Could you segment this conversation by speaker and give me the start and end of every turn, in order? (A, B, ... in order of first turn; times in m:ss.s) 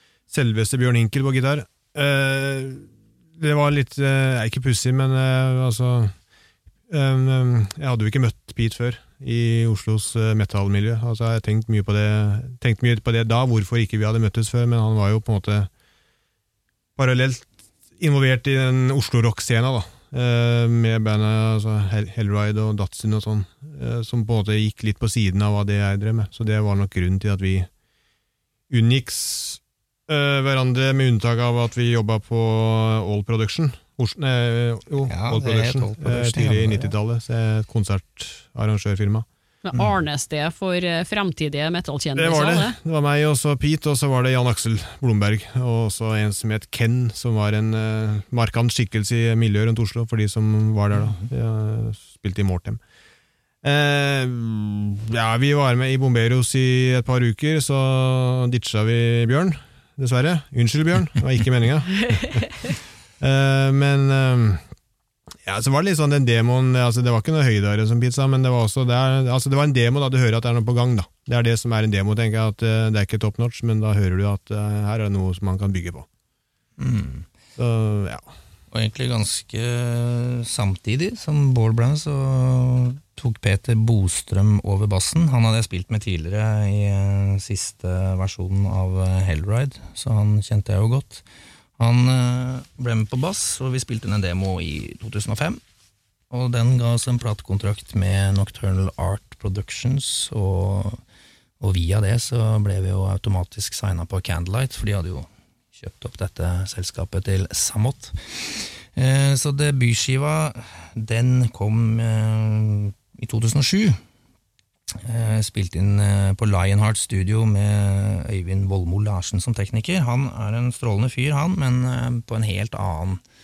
0:00.3-0:06.2 A
0:06.9-0:15.7 A
0:17.0-0:27.7 A
0:28.7-0:39.2 A
0:35.1-0:36.9 B
0:39.6-0:42.8 C
0:42.2-0:52.8 A
0:51.0-0:51.3 B
0:53.6-1:02.6 A
1:03.2-1:04.6 A
1:05.4-1:16.0 A
1:16.8-1:17.3 B
1:17.6-1:18.3 A
1:18.7-1:31.2 B
1:31.8-1:35.6 B
1:36.3-1:41.0 B
1:41.6-1:54.0 B
1:54.9-2:03.2 B